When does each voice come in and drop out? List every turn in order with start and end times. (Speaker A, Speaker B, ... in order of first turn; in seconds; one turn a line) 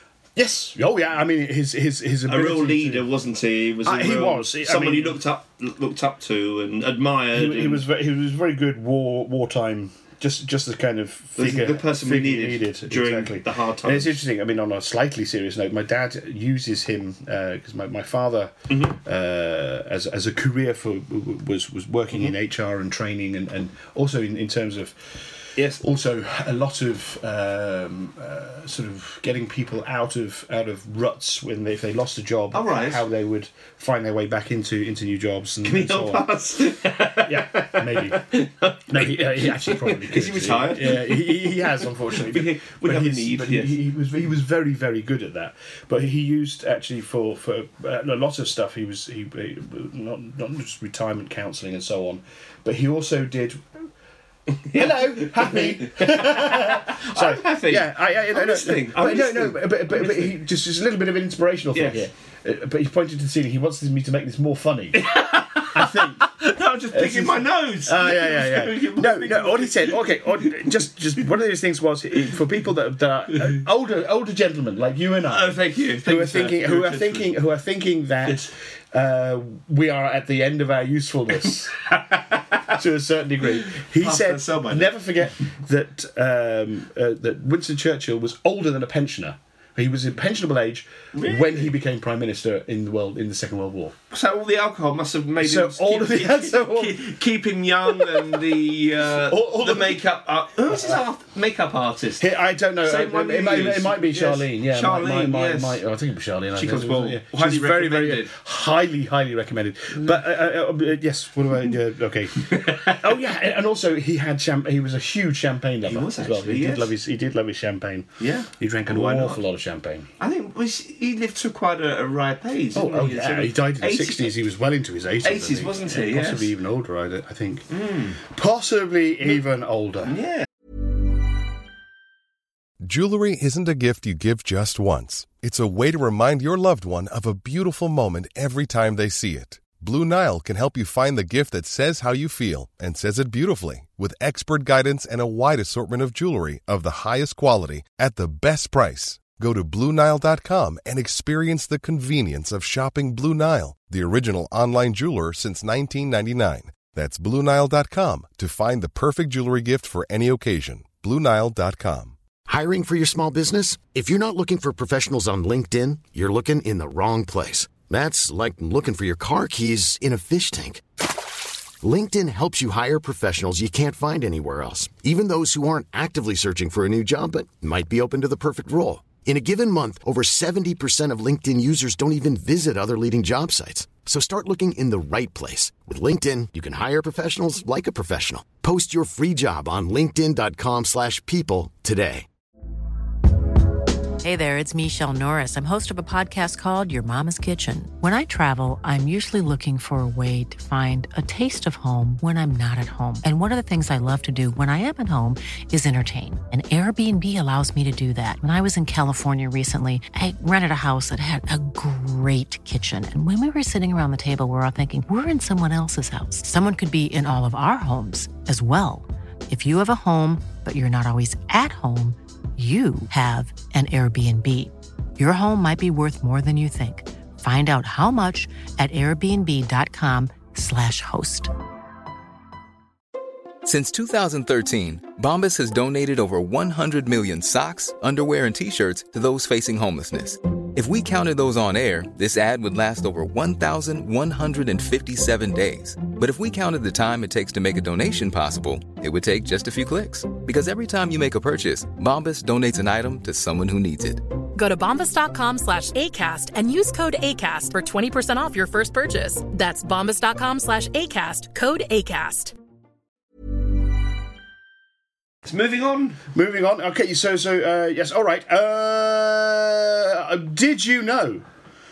Speaker A: 0.4-3.1
Speaker B: 2.3-7.8
Speaker A: 3.8-5.2
Speaker A: 7.3-36.3
Speaker B: 11.4-14.2
Speaker B: 18.7-19.0
Speaker B: 25.6-25.8
Speaker B: 32.5-33.0
Speaker B: 35.6-43.8
Speaker A: 37.2-53.9
Speaker B: 54.7-60.4
Speaker A: 54.7-66.3
Speaker B: 61.7-62.1
Speaker B: 65.0-70.7
Speaker A: 66.9-81.9
Speaker B: 75.3-77.3
Speaker B: 78.2-78.5
Speaker B: 81.9-82.4
Speaker A: 82.6-94.0
Speaker B: 83.7-84.9
Speaker B: 91.1-91.7
Speaker B: 94.1-102.3
Speaker A: 95.4-97.2
Speaker A: 97.8-100.0
Speaker A: 100.7-101.0
Speaker A: 102.2-120.1
Speaker B: 102.8-105.8
Speaker B: 106.5-108.3
Speaker B: 112.5-113.0
Speaker B: 115.8-116.9
Speaker B: 118.2-119.4
Speaker B: 120.2-124.3
Speaker A: 122.7-130.2
Speaker B: 125.2-126.5
Speaker B: 127.7-128.2
Speaker B: 130.1-130.5
Speaker C: 132.8-162.2
Speaker D: 162.5-170.8
Speaker D: 171.8-192.3
Speaker E: 194.2-231.5
Speaker F: 233.6-254.2
Speaker G: 254.6-262.6
Speaker B: 265.4-266.2
Speaker A: 266.3-271.4